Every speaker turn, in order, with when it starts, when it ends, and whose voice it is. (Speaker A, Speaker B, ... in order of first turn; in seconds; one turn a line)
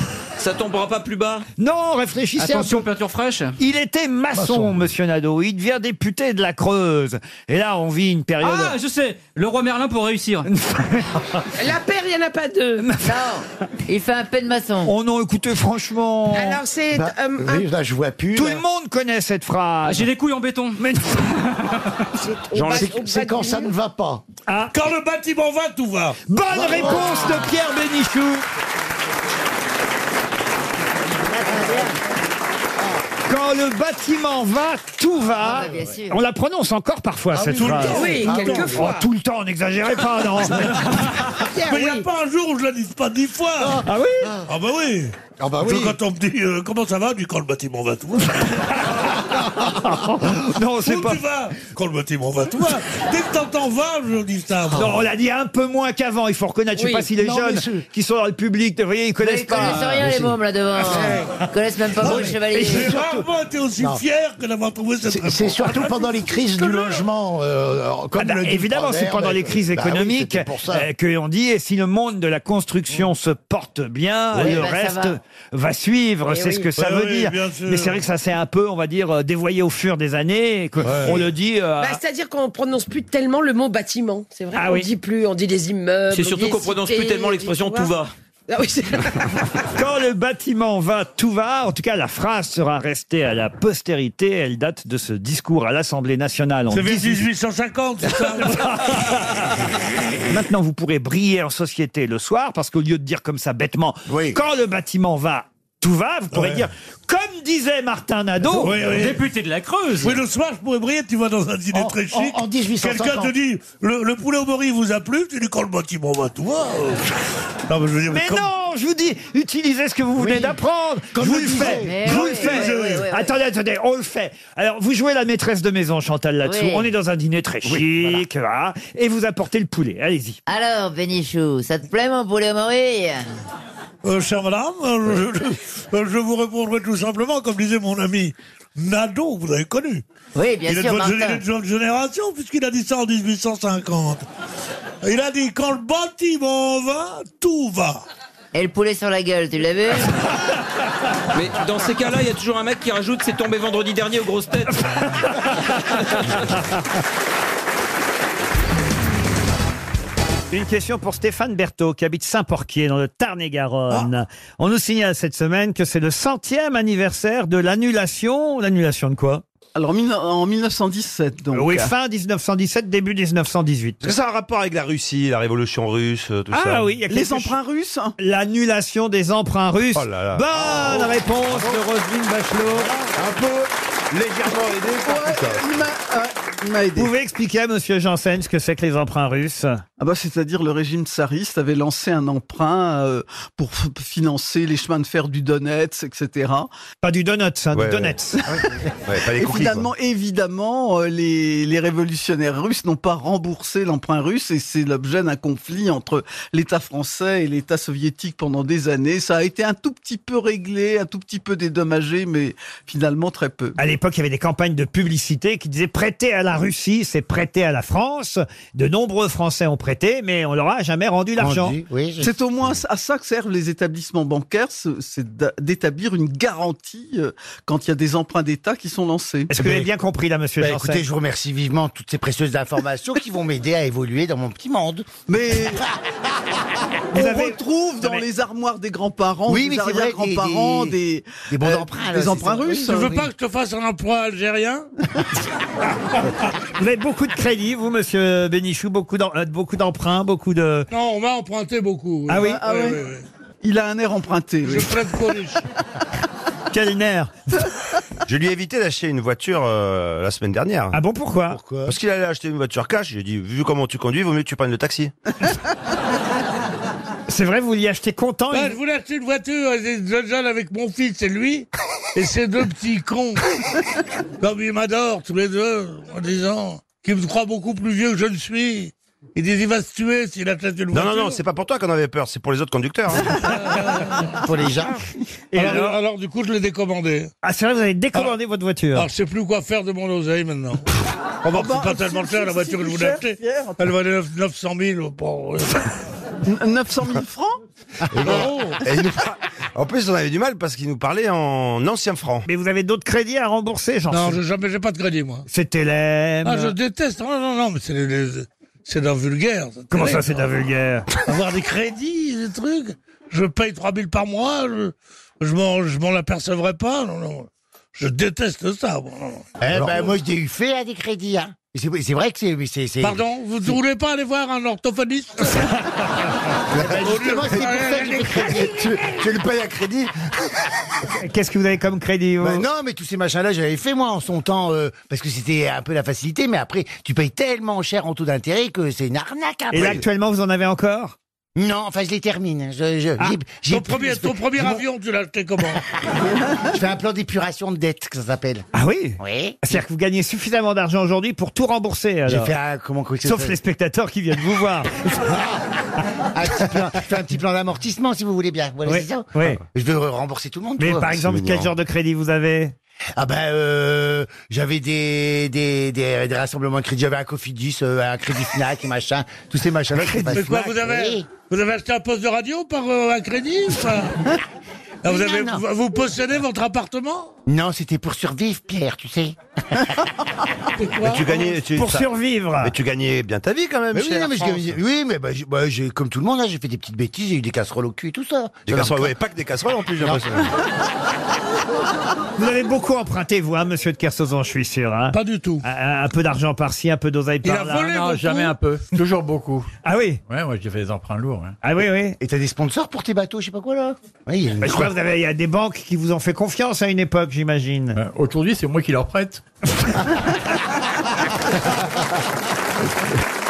Speaker A: 0.4-1.4
Speaker B: 1.6-2.9
Speaker C: 2.4-3.5
Speaker B: 3.6-8.8
Speaker D: 4.3-4.7
Speaker C: 8.4-10.5
Speaker B: 10.5-11.1
Speaker E: 11.6-12.8
Speaker B: 12.8-13.1
Speaker F: 13.0-14.9
Speaker B: 14.8-16.6
Speaker E: 16.3-17.6
Speaker D: 16.9-18.6
Speaker B: 18.3-20.1
Speaker C: 19.8-20.8
Speaker B: 20.8-21.3
Speaker E: 22.3-23.7
Speaker A: 22.5-22.9
Speaker D: 22.6-24.2
Speaker B: 24.5-24.7
Speaker G: 24.7-26.2
Speaker B: 26.3-28.4
Speaker D: 26.5-27.3
Speaker F: 31.2-31.9
Speaker B: 33.3-40.9
Speaker F: 35.4-36.2
Speaker G: 37.4-38.8
Speaker E: 37.9-38.9
Speaker G: 40.8-43.8
Speaker B: 43.8-44.3
Speaker G: 44.4-49.1
Speaker D: 45.4-45.9
Speaker B: 49.6-51.2
Speaker G: 50.8-55.0
Speaker B: 54.7-59.8
Speaker D: 57.1-57.8
Speaker F: 59.2-63.0
Speaker D: 60.0-60.3
Speaker G: 62.0-67.0
Speaker D: 62.0-62.3
Speaker D: 65.0-70.9
Speaker B: 68.2-82.0
Speaker F: 74.3-75.2
Speaker G: 76.8-78.0
Speaker E: 81.8-87.9
Speaker B: 84.5-84.9
Speaker A: 86.1-88.1
Speaker E: 88.5-89.0
Speaker B: 89.7-97.2
Speaker G: 96.7-99.2
Speaker B: 98.2-99.5
Speaker B: 100.3-108.8
Speaker D: 104.1-104.4
Speaker G: 108.6-109.2
Speaker C: 108.7-110.2
Speaker G: 110.0-117.0
Speaker D: 111.7-113.3
Speaker G: 117.7-118.5
Speaker B: 118.1-130.4
Speaker D: 120.2-120.5
Speaker D: 121.1-122.0
Speaker F: 121.7-123.3
Speaker G: 122.0-123.1
Speaker F: 126.4-126.9
Speaker F: 130.5-133.2
Speaker G: 134.0-140.0
Speaker F: 140.3-141.4
Speaker G: 140.7-144.2
Speaker G: 145.0-148.0
Speaker F: 148.5-150.1
Speaker A: 151.3-154.8
Speaker B: 155.2-155.5
Speaker B: 160.5-169.4
Speaker H: 169.7-171.9
Speaker B: 171.5-174.0
Speaker I: 174.0-176.8
Speaker B: 176.5-177.6
Speaker H: 177.1-178.1
Speaker B: 178.2-182.9
Speaker I: 179.9-181.0
Speaker I: 184.1-185.6
Speaker H: 184.5-187.1
Speaker B: 186.9-189.8
Speaker H: 190.0-196.7
Speaker B: 197.0-198.4
Speaker I: 197.7-198.1
Speaker I: 199.1-199.9
Speaker H: 199.2-213.8
Speaker B: 213.8-221.8
Speaker J: 221.4-222.8
Speaker H: 222.2-229.5
Speaker B: 229.5-231.0
Speaker J: 230.6-235.1
Speaker H: 235.3-235.8
Speaker H: 237.1-243.1
Speaker B: 237.1-238.2
Speaker J: 239.5-240.9
Speaker J: 241.5-242.9
Speaker G: 242.8-244.9
Speaker B: 246.8-250.9
Speaker G: 250.9-253.2
Speaker B: 252.3-252.7
Speaker H: 253.6-254.9
Speaker G: 254.6-255.6
Speaker B: 256.7-257.3
Speaker I: 258.3-260.9
Speaker B: 260.9-261.6
Speaker I: 261.8-265.1
Speaker B: 267.3-268.8
Speaker G: 268.5-273.4
Speaker G: 274.4-281.4
Speaker I: 280.9-283.4
Speaker G: 283.4-284.2
Speaker J: 284.4-284.9
Speaker B: 285.5-285.9
Speaker G: 285.5-287.3
Speaker B: 287.4-289.1
Speaker G: 288.9-290.8
Speaker G: 291.4-295.9
Speaker H: 291.6-292.3
Speaker H: 296.4-297.6
Speaker I: 298.1-302.4
Speaker B: 302.4-304.4
Speaker G: 304.1-305.4
Speaker B: 305.5-306.7
Speaker G: 306.4-310.4
Speaker B: 309.9-311.1
Speaker G: 311.2-319.4
Speaker J: 319.6-323.7
Speaker G: 323.0-325.7
Speaker J: 326.8-329.9
Speaker G: 326.8-328.7
Speaker B: 331.2-332.6
Speaker J: 332.4-340.0
Speaker B: 339.7-341.1
Speaker J: 341.6-344.8
Speaker G: 343.7-345.8
Speaker J: 346.7-348.6
Speaker B: 348.7-352.5
Speaker J: 349.2-349.6
Speaker J: 352.3-353.6
Speaker B: 353.2-355.1
Speaker J: 356.3-361.6
Speaker B: 358.9-359.6
Speaker B: 360.8-362.7
Speaker J: 363.2-371.2
Speaker G: 370.0-374.2
Speaker G: 375.0-377.3
Speaker J: 375.1-375.6
Speaker J: 377.5-379.3
Speaker G: 380.8-381.6
Speaker I: 381.0-382.1
Speaker B: 381.7-382.7
Speaker I: 382.6-384.8
Speaker J: 383.9-389.1
Speaker I: 388.6-390.5
Speaker B: 392.4-398.3
Speaker G: 395.1-395.6
Speaker G: 397.4-398.5
Speaker K: 397.9-399.7
Speaker B: 399.8-400.2
Speaker K: 400.3-401.5
Speaker B: 401.6-402.2
Speaker J: 402.2-404.9
Speaker B: 404.6-408.0
Speaker K: 407.9-409.4